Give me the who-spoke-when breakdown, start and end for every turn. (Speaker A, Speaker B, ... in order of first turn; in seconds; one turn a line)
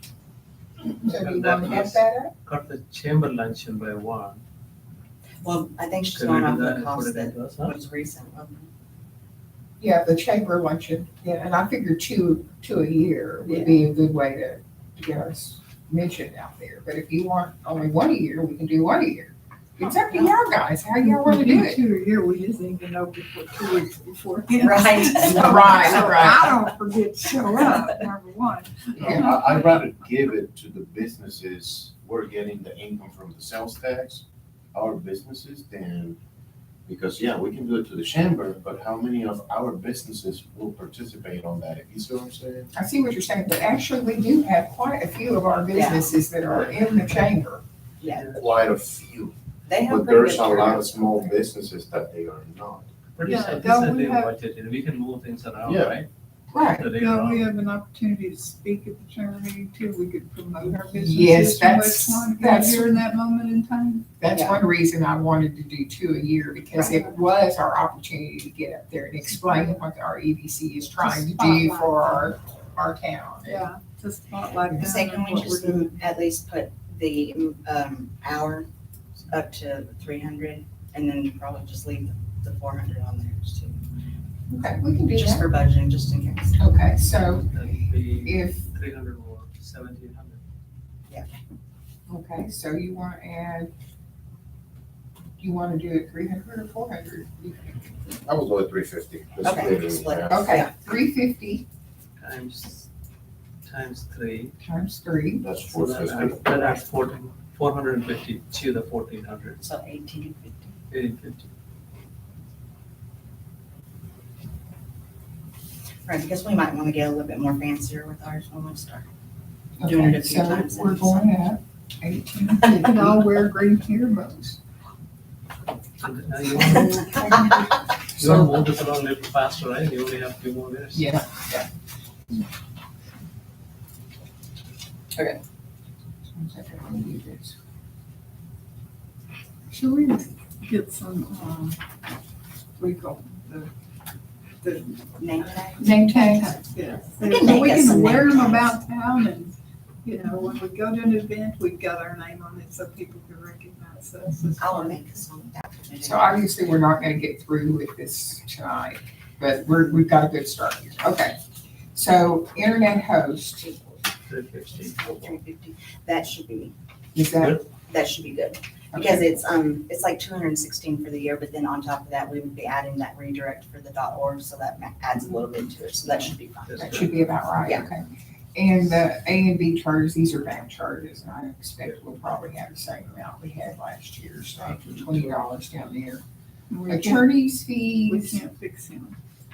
Speaker A: 1.0-4.4
Speaker B: 1.0-2.3
Speaker C: 5.4-8.7
Speaker A: 6.1-7.7
Speaker B: 9.8-21.8
Speaker C: 13.4-13.8
Speaker D: 21.0-29.9
Speaker C: 24.6-26.6
Speaker B: 25.2-26.5
Speaker E: 28.9-36.2
Speaker B: 29.0-29.4
Speaker E: 36.9-42.7
Speaker B: 42.8-47.6
Speaker C: 45.7-46.2
Speaker A: 46.5-46.8
Speaker C: 48.0-48.4
Speaker A: 48.1-48.4
Speaker E: 48.2-53.6
Speaker C: 49.7-51.4
Speaker A: 53.2-56.1
Speaker D: 53.3-54.3
Speaker E: 55.6-56.0
Speaker B: 56.5-57.0
Speaker A: 56.7-57.5
Speaker D: 57.0-64.1
Speaker B: 60.8-63.0
Speaker B: 64.2-73.7
Speaker C: 64.3-64.6
Speaker D: 71.0-72.3
Speaker D: 73.4-76.0
Speaker C: 74.7-78.7
Speaker C: 79.3-83.9
Speaker B: 84.5-85.5
Speaker C: 85.1-86.7
Speaker B: 86.6-87.5
Speaker A: 87.3-90.4
Speaker B: 88.2-88.7
Speaker B: 92.1-93.7
Speaker B: 95.4-98.1
Speaker E: 98.2-100.5
Speaker C: 99.4-100.7
Speaker B: 100.3-101.7
Speaker A: 102.2-102.9
Speaker A: 103.7-104.5
Speaker B: 104.6-105.4
Speaker E: 105.4-106.8
Speaker A: 105.7-109.6
Speaker C: 109.6-110.8
Speaker A: 110.9-111.5
Speaker C: 116.0-119.1
Speaker B: 119.8-123.4
Speaker C: 119.8-121.4
Speaker C: 122.6-122.9
Speaker D: 122.8-124.6
Speaker A: 126.0-127.1
Speaker C: 126.7-127.2
Speaker D: 127.0-127.3
Speaker A: 128.2-131.1
Speaker B: 130.9-131.7
Speaker B: 136.3-137.6
Speaker D: 139.7-141.8
Speaker D: 142.8-143.7
Speaker D: 144.6-145.2
Speaker C: 145.1-146.4
Speaker D: 145.8-155.0
Speaker B: 145.8-146.6
Speaker C: 147.2-148.7
Speaker C: 154.6-156.7
Speaker B: 156.0-161.3
Speaker B: 161.9-163.8
Speaker C: 163.7-164.0
Speaker A: 164.2-165.4
Speaker C: 164.8-166.7
Speaker B: 167.1-167.6
Speaker C: 167.8-177.1
Speaker B: 168.9-169.4
Speaker A: 176.7-177.4
Speaker B: 176.8-186.2
Speaker C: 177.6-177.9
Speaker E: 184.7-185.5
Speaker D: 186.7-187.3
Speaker B: 186.9-188.4
Speaker D: 188.1-189.2